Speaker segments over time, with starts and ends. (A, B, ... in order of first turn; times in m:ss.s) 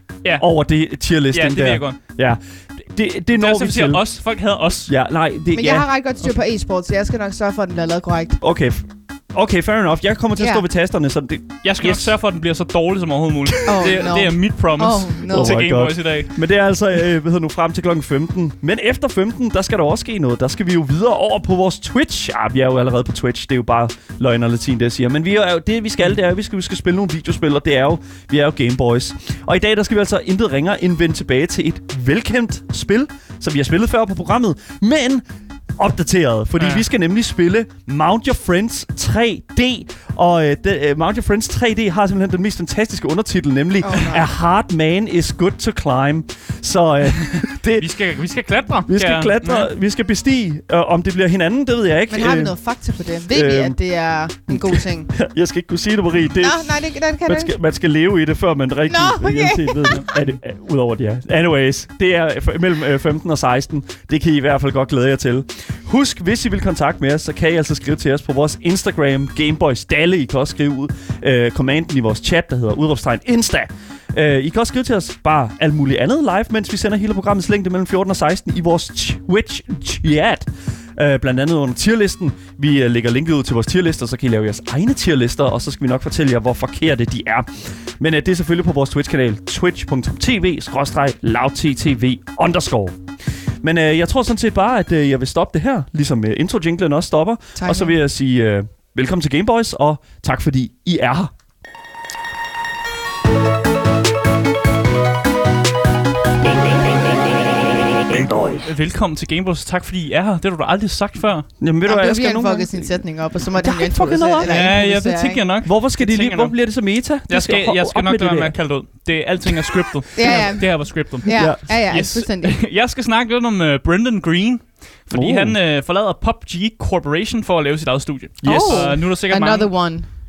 0:00.4-0:04.0 A
0:01.3-0:02.0 B
0:03.4-0:04.9 B
0:04.9-0:05.9 A
0:05.5-0:08.4 C
0:08.4-0:12.1 A
0:10.4-0:10.6 C
0:11.6-0:16.3 B
0:13.6-0:15.6 C
0:15.3-0:35.2 A
0:35.8-0:47.9 A
0:36.6-0:36.8 B
0:43.8-0:44.3 C
0:47.8-0:49.7 B
0:48.9-0:52.5 A
0:52.1-0:55.1 C
0:53.3-0:53.8 A
0:54.5-1:33.0 A
0:56.4-0:57.5 C
0:58.9-1:00.0 C
0:59.9-1:00.4 B
1:33.6-1:41.3 A
1:37.6-1:38.0 C
1:48.1-1:48.6 A
1:48.6-1:51.5 B
1:51.6-1:53.0 A
1:51.8-1:55.4 C
1:53.6-1:54.8 A
1:54.4-1:56.6 B
1:55.6-1:58.6 A
1:57.3-2:09.7 B
1:59.7-2:00.6 A
2:00.2-2:02.6 C
2:01.3-2:01.6 A
2:05.1-2:05.6 A
2:08.4-2:09.0 A
2:08.4-2:10.1 C